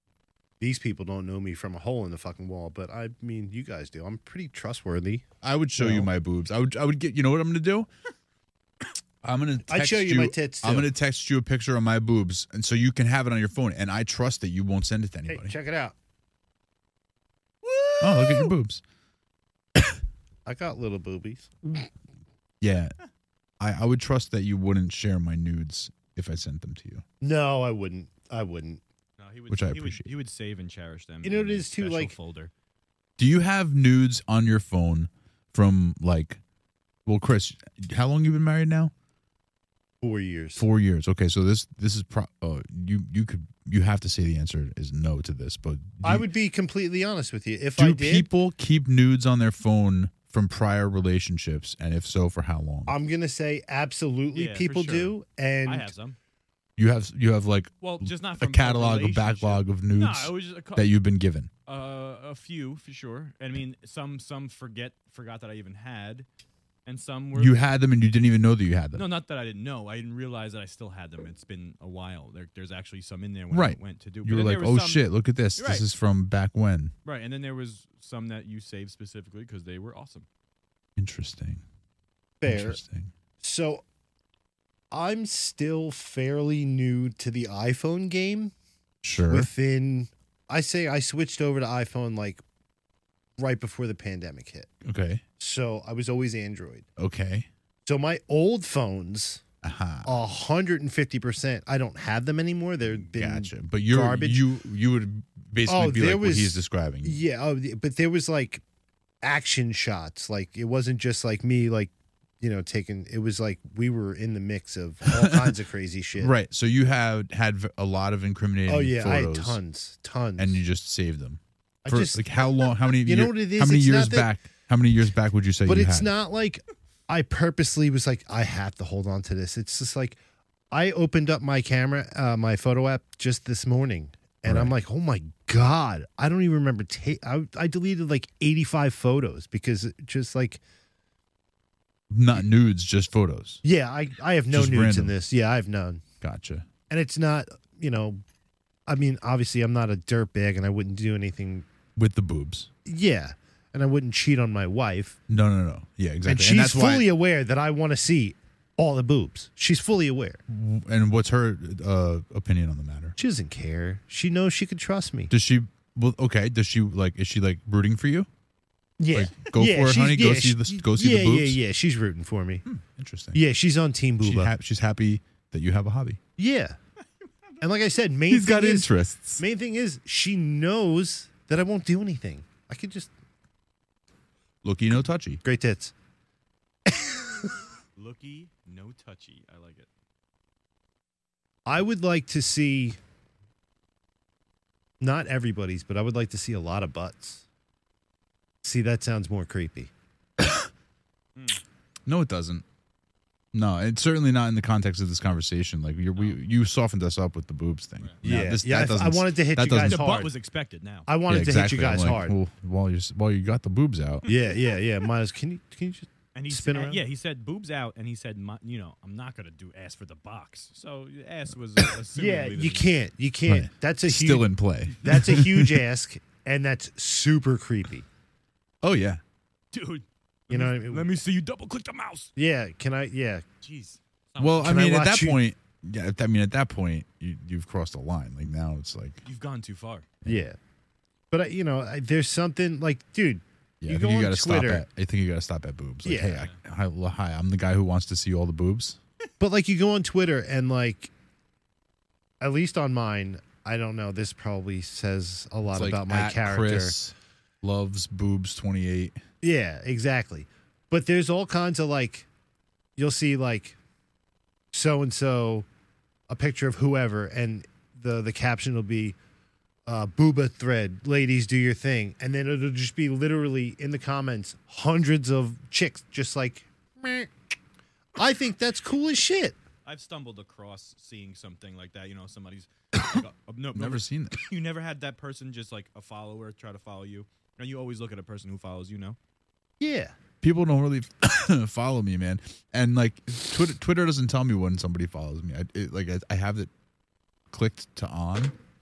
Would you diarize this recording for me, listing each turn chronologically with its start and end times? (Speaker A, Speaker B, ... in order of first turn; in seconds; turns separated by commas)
Speaker A: 0.6-6.1, Speaker B: 5.4-7.9, Speaker B: 9.2-15.6, Speaker A: 9.7-10.9, Speaker A: 15.3-15.9, Speaker C: 17.6-18.5, Speaker B: 18.0-18.8, Speaker A: 20.4-21.9, Speaker B: 22.6-22.9, Speaker B: 23.6-27.0, Speaker A: 27.2-28.8, Speaker C: 29.2-32.5, Speaker B: 29.5-30.1, Speaker A: 31.2-32.1, Speaker B: 33.2-36.4, Speaker B: 37.0-38.9, Speaker A: 40.0-40.6, Speaker B: 40.6-46.2, Speaker A: 46.0-48.3, Speaker B: 47.8-52.9, Speaker A: 52.9-55.9, Speaker C: 54.3-56.2, Speaker B: 56.8-61.5, Speaker C: 57.8-60.9, Speaker C: 61.6-66.3, Speaker C: 66.8-67.6, Speaker B: 67.3-69.0, Speaker C: 68.9-75.8, Speaker B: 73.5-76.9, Speaker C: 77.0-80.3, Speaker B: 81.0-81.6, Speaker A: 82.4-82.8, Speaker B: 82.4-83.1, Speaker A: 83.4-83.8, Speaker A: 84.9-88.5, Speaker B: 89.0-89.5, Speaker A: 89.3-92.4, Speaker A: 93.4-94.7, Speaker B: 94.8-95.2, Speaker A: 95.4-96.8, Speaker B: 97.0-97.5, Speaker A: 97.8-99.4, Speaker B: 99.6-100.1, Speaker A: 100.0-104.4, Speaker B: 102.9-107.2, Speaker A: 105.7-108.6, Speaker A: 109.2-116.3, Speaker B: 115.0-115.5, Speaker B: 116.2-119.6, Speaker A: 118.7-120.6, Speaker B: 120.4-126.1, Speaker A: 121.8-122.2, Speaker A: 123.0-124.3, Speaker A: 125.6-130.2, Speaker A: 130.7-140.6, Speaker B: 134.4-134.7, Speaker B: 142.1-143.6, Speaker A: 143.6-146.0, Speaker B: 144.5-145.1, Speaker B: 146.2-146.7, Speaker A: 146.9-148.2, Speaker A: 148.9-151.7, Speaker B: 151.9-152.7, Speaker A: 152.8-155.2, Speaker B: 155.3-157.1, Speaker A: 156.2-160.4, Speaker B: 160.5-163.2, Speaker A: 163.2-165.3, Speaker B: 165.3-168.3, Speaker A: 169.0-172.6, Speaker B: 169.1-171.6, Speaker B: 172.7-173.4, Speaker A: 173.3-174.5, Speaker B: 174.2-176.2, Speaker A: 176.4-176.8, Speaker A: 177.6-183.1, Speaker B: 178.3-179.4, Speaker B: 184.6-185.4, Speaker A: 185.4-185.9, Speaker A: 186.9-187.6, Speaker C: 187.9-189.9, Speaker A: 191.7-193.0, Speaker A: 195.0-197.4, Speaker A: 198.6-199.9, Speaker B: 200.4-200.7, Speaker C: 201.3-201.6, Speaker B: 202.1-202.6, Speaker B: 203.5-210.0, Speaker A: 208.2-210.3, Speaker C: 209.8-211.1, Speaker A: 211.1-212.3, Speaker B: 211.3-214.3, Speaker A: 214.2-217.0, Speaker C: 216.3-222.9, Speaker A: 222.1-224.5, Speaker B: 223.4-225.8, Speaker A: 225.0-228.1, Speaker B: 228.8-229.2, Speaker C: 229.7-232.3, Speaker A: 230.5-231.1, Speaker A: 232.3-233.4, Speaker C: 233.6-234.8, Speaker B: 234.4-239.2, Speaker A: 234.6-235.4, Speaker C: 239.2-240.1, Speaker A: 240.2-240.6, Speaker A: 241.3-244.8, Speaker B: 243.8-249.0, Speaker A: 246.0-246.4, Speaker A: 249.4-251.1, Speaker A: 252.4-256.9, Speaker B: 255.7-259.2, Speaker A: 259.4-262.3, Speaker A: 263.0-263.8, Speaker A: 264.7-265.7, Speaker A: 266.3-269.2, Speaker A: 269.9-277.3, Speaker A: 278.1-279.6, Speaker C: 279.8-289.2, Speaker B: 283.7-284.4, Speaker A: 289.8-290.1, Speaker B: 290.4-296.7, Speaker B: 297.5-298.5